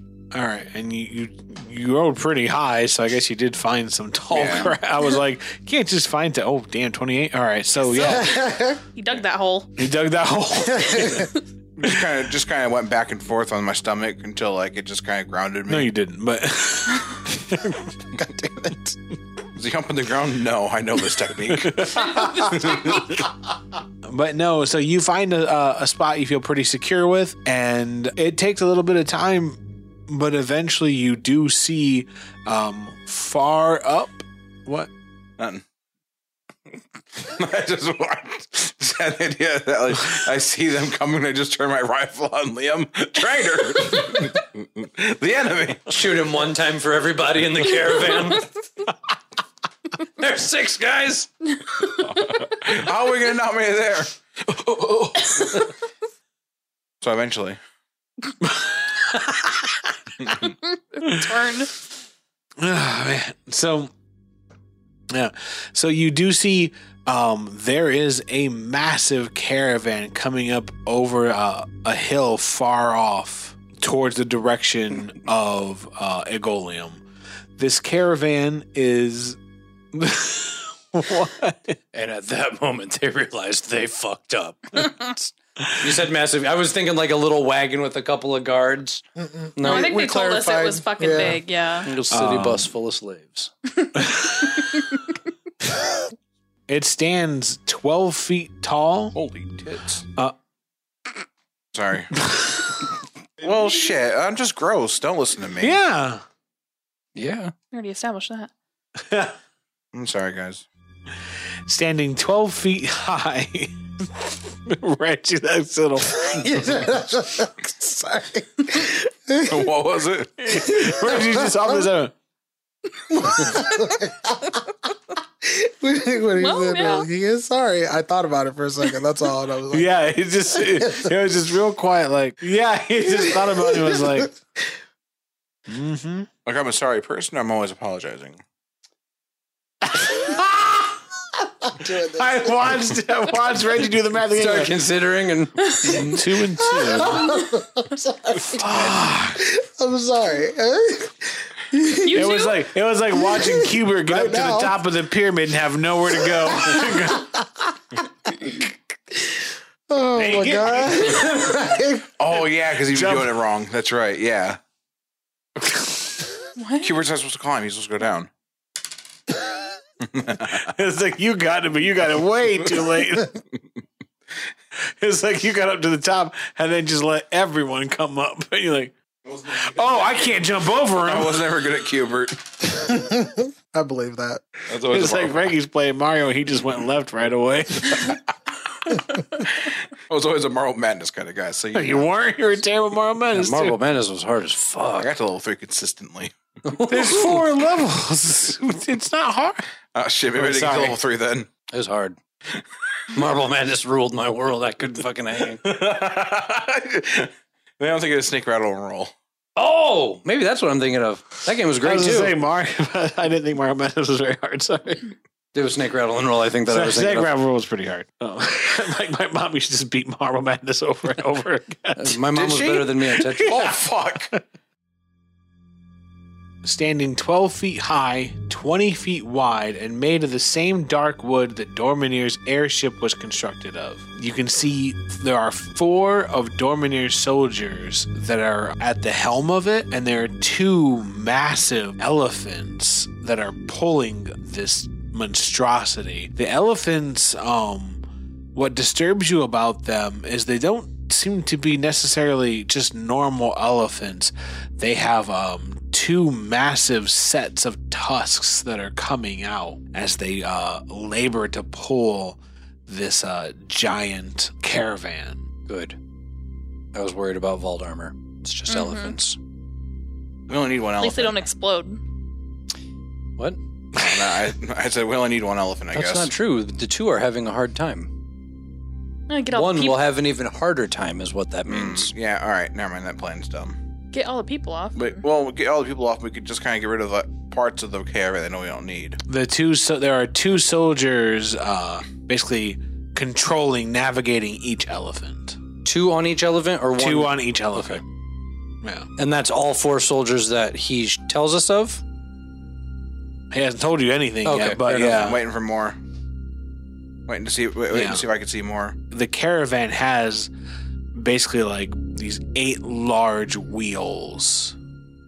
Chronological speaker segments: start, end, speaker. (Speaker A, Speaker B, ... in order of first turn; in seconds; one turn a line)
Speaker A: 0.3-8.4
Speaker B: 4.3-4.7
Speaker C: 7.8-9.7
Speaker D: 8.0-8.8
Speaker A: 9.8-12.0
Speaker D: 10.8-11.2
Speaker B: 11.8-15.9
Speaker A: 15.7-17.9
Speaker D: 18.1-18.9
Speaker B: 19.5-23.0
Speaker A: 21.5-23.0
Speaker C: 21.9-23.0
Speaker A: 24.0-34.9
Speaker B: 35.4-35.6
Speaker B: 37.2-45.9
Speaker E: 45.9-48.5
Speaker E: 50.0-51.3
Speaker C: 51.6-52.3
Speaker B: 52.0-55.7
Speaker B: 57.0-57.6
Speaker A: 58.4-60.3
Speaker C: 60.4-61.7
Speaker A: 61.0-61.3
Speaker A: 62.6-63.9
Speaker A: 65.1-77.0
Speaker A: 77.5-79.4
Speaker A: 79.9-81.8
Speaker E: 81.9-89.0
Speaker A: 85.6-85.9
Speaker D: 89.2-91.4
Speaker E: 89.5-89.9
Speaker C: 89.6-91.9
Speaker E: 91.8-93.5
Speaker A: 92.1-92.7
Speaker A: 94.0-94.8
Speaker C: 94.4-95.0
Speaker A: 96.7-99.2
Speaker B: 99.1-100.0
Speaker B: 101.7-102.1
Speaker A: 102.1-102.7
Speaker B: 103.4-105.8
Speaker A: 105.6-106.2
Speaker E: 107.1-107.5
Speaker C: 107.7-108.5
Speaker A: 109.0-109.3
Speaker B: 109.9-110.6
Speaker A: 111.7-116.5
Speaker D: 116.2-119.7
Speaker B: 119.5-120.5
Speaker A: 120.4-122.1
Speaker D: 120.5-121.9
Speaker D: 123.1-124.6
Speaker D: 125.4-129.9
Speaker C: 126.4-127.1
Speaker A: 129.7-134.4
Speaker D: 130.6-131.1
Speaker D: 133.1-134.3
Speaker A: 135.7-136.3
Speaker B: 136.4-138.4
Speaker A: 139.8-140.9
Speaker D: 141.6-142.8
Speaker A: 142.1-144.8
Speaker E: 144.3-146.2
Speaker C: 145.7-146.0
Speaker A: 146.1-147.3
Speaker D: 146.5-152.3
Speaker A: 148.5-149.4
Speaker C: 152.0-152.7
Speaker A: 152.1-157.3
Speaker D: 153.1-154.8
Speaker D: 156.2-162.1
Speaker A: 160.2-161.2
Speaker B: 162.2-164.6
Speaker A: 162.8-163.3
Speaker A: 165.6-166.2
Speaker C: 166.6-166.9
Speaker B: 166.8-168.3
Speaker B: 170.0-170.7
Speaker A: 170.3-173.4
Speaker A: 175.0-178.9
Speaker B: 179.3-180.2
Speaker A: 179.4-181.4
Speaker B: 181.0-182.5
Speaker D: 182.7-184.5
Speaker B: 184.7-185.5
Speaker A: 184.8-188.2
Speaker B: 188.9-192.1
Speaker A: 191.7-193.8
Speaker E: 193.3-195.1
Speaker B: 195.0-196.3
Speaker E: 196.6-197.4
Speaker A: 196.9-199.6
Speaker B: 199.9-201.5
Speaker A: 200.3-201.0
Speaker E: 201.7-202.2
Speaker E: 203.1-205.7
Speaker B: 205.6-209.1
Speaker E: 209.6-212.3
Speaker A: 211.8-215.1
Speaker E: 215.5-217.3
Speaker A: 216.7-222.2
Speaker E: 221.9-223.8
Speaker B: 222.3-224.3
Speaker A: 223.3-223.7
Speaker A: 226.6-248.0
Speaker A: 248.5-265.4
Speaker E: 265.7-266.0
Speaker E: 266.9-269.4
Speaker C: 268.7-269.1
Speaker B: 270.5-271.4
Speaker C: 271.0-272.0
Speaker B: 273.9-276.3
Speaker A: 274.1-274.3
Speaker E: 275.9-278.1
Speaker C: 279.3-280.0
Speaker E: 279.5-282.1
Speaker B: 281.7-283.8
Speaker C: 284.1-285.2
Speaker B: 284.9-289.2
Speaker A: 289.3-295.6
Speaker E: 295.8-298.0
Speaker A: 296.9-298.0
Speaker A: 298.8-299.1
Speaker E: 299.2-302.0
Speaker A: 303.5-305.4
Speaker E: 304.4-305.4
Speaker B: 305.1-306.0
Speaker B: 307.3-309.0
Speaker A: 307.9-308.2
Speaker A: 309.1-310.5
Speaker A: 311.1-314.7